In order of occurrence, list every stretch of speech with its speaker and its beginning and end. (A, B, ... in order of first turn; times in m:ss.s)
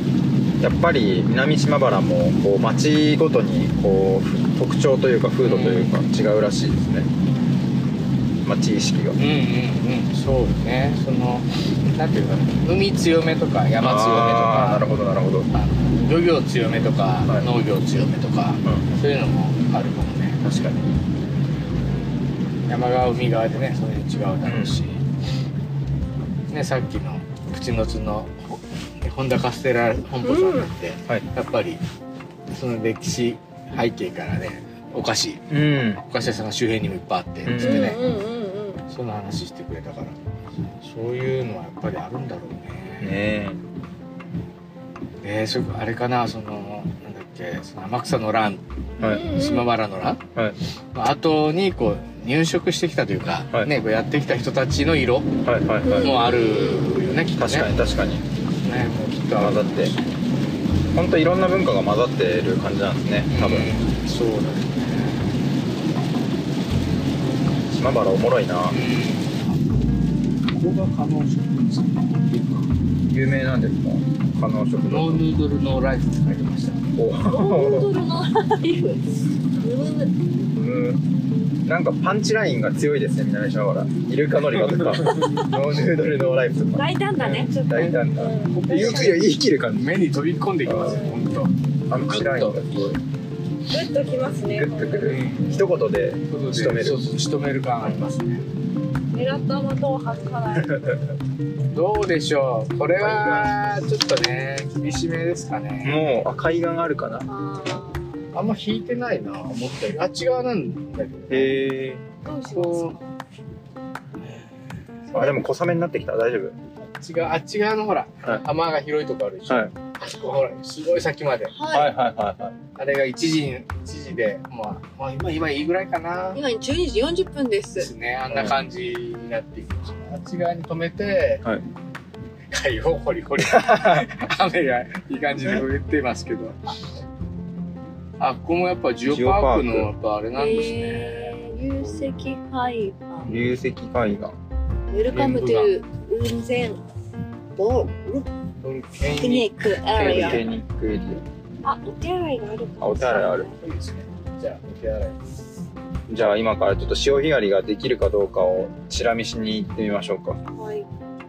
0:00.6-0:07.1 A
0:05.4-0:06.0 B
0:08.4-0:09.2 A
0:09.2-0:14.9 B
0:13.8-0:15.5 A
0:15.5-0:20.4 B
0:20.4-0:20.9 A
0:22.7-0:25.0 B
0:24.4-0:24.8 A
0:26.5-0:31.8 B
0:30.2-0:30.7 C
0:32.5-0:35.5 B
0:35.5-0:36.0 A
0:36.1-0:38.0 B
0:37.5-0:38.0 A
0:37.6-0:38.8 C
0:38.9-0:43.2 B
0:43.0-0:43.6 A
0:45.2-0:48.6 B
0:49.0-0:49.3 A
0:49.0-0:49.7 C
0:49.2-0:50.2 B
0:50.9-0:55.3 B
0:55.4-0:56.1 A
0:55.8-0:57.0 C
0:56.0-0:57.7 B
0:57.4-0:58.2 A
0:58.6-1:00.0 B
0:59.4-0:59.9 A
1:00.9-1:03.7 A
1:03.3-1:05.4 B
1:07.7-1:08.8 A
1:08.7-1:09.6 B
1:10.5-1:12.7 B
1:13.1-1:15.2 A
1:14.8-1:16.8 B
1:17.0-1:17.9 A
1:17.3-1:20.1 C
1:20.6-1:21.0 A
1:21.7-1:29.9 A
1:26.8-1:29.2 C
1:27.2-1:28.0 B
1:28.5-1:31.5 B
1:30.7-1:31.0 A
1:31.9-1:33.0 A
1:32.1-1:32.6 B
1:33.7-1:35.2 C
1:34.5-1:37.1 A
1:35.0-1:35.6 B
1:36.3-1:38.4 B
1:39.1-1:40.7 C
1:40.6-1:41.1 A
1:41.7-1:46.0 B
1:43.0-1:43.6 A
1:45.8-1:47.3 A
1:47.3-1:48.2 C
1:48.3-1:51.5 B
1:51.3-1:52.0 A
1:52.2-1:53.0 C
1:52.5-1:53.0 B
1:55.1-1:56.6 A
1:57.0-2:01.6 B
2:01.5-2:01.9 C
2:01.7-2:02.6 A
2:02.8-2:06.4 B
2:06.3-2:07.9 C
2:07.8-2:11.4 B
2:08.3-2:08.6 A
2:12.5-2:16.6 B
2:13.4-2:14.1 A
2:18.2-2:22.1 B
2:19.1-2:19.9 A
2:20.4-2:23.3 C
2:23.2-2:23.6 B
2:23.2-2:24.4 A
2:24.9-2:26.8 C
2:25.1-2:25.7 B
2:27.6-2:28.3 C
2:28.6-2:30.5 B
2:29.2-2:30.4 C
2:30.0-2:31.2 A
2:31.6-2:33.5 C
2:32.8-2:33.5 A
2:33.6-2:35.2 B
2:36.1-2:40.4 A
2:40.5-2:40.9 C